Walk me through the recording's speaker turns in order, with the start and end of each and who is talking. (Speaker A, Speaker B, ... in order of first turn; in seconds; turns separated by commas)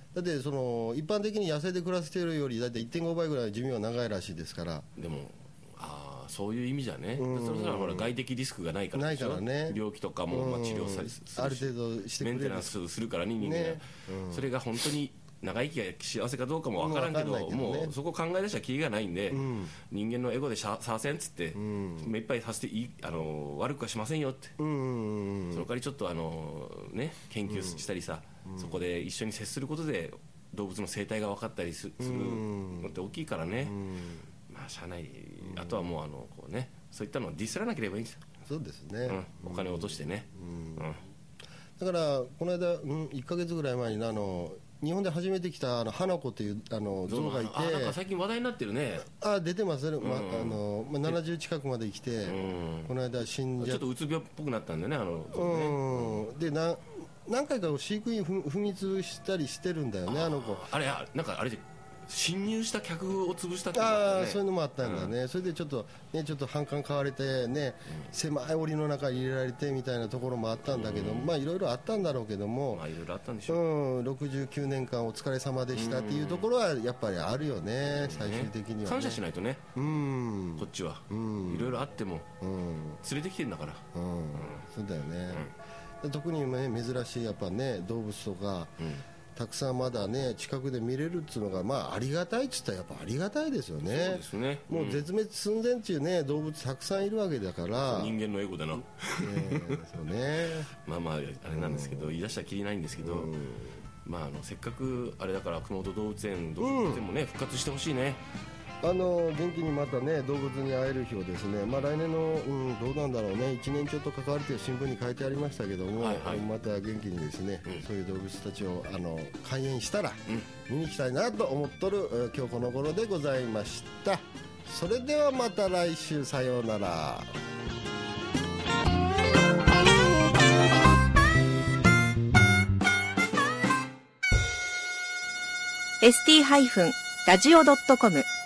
Speaker A: 0.1-4.9, Speaker B: 5.0-24.5, Speaker A: 7.1-8.1, Speaker A: 8.9-12.7, Speaker A: 13.4-14.5, Speaker A: 16.8-17.9, Speaker A: 19.3-19.7, Speaker A: 21.5-22.1, Speaker A: 24.6-25.7, Speaker B: 25.5-33.8, Speaker A: 27.5-27.9, Speaker A: 28.5-28.8, Speaker A: 32.0-33.0, Speaker A: 33.6-34.2, Speaker B: 34.5-38.2, Speaker A: 35.4-35.9, Speaker A: 38.5-41.0, Speaker B: 39.0-41.0, Speaker A: 41.8-48.0, Speaker B: 47.1-49.1, Speaker A: 49.1-53.9, Speaker B: 50.0-51.2, Speaker B: 52.2-52.9, Speaker B: 53.6-56.2, Speaker A: 55.3-60.7, Speaker B: 60.1-65.1, Speaker A: 63.7-72.8, Speaker B: 70.7-71.3, Speaker B: 72.7-73.6, Speaker A: 73.5-79.2, Speaker B: 75.7-76.5, Speaker B: 78.0-79.7, Speaker A: 79.7-81.8, Speaker B: 80.6-82.3, Speaker A: 82.4-83.0, Speaker B: 83.0-84.6, Speaker A: 83.9-85.5, Speaker A: 86.0-88.8, Speaker B: 88.8-89.0, Speaker A: 89.3-98.2, Speaker B: 93.8-95.1, Speaker B: 97.8-99.8, Speaker A: 99.2-100.7, Speaker B: 100.8-103.3, Speaker A: 101.5-102.2, Speaker A: 103.0-103.7, Speaker B: 104.0-108.2, Speaker A: 106.6-107.1, Speaker A: 108.8-127.3, Speaker B: 115.9-116.5, Speaker C: 136.0-138.2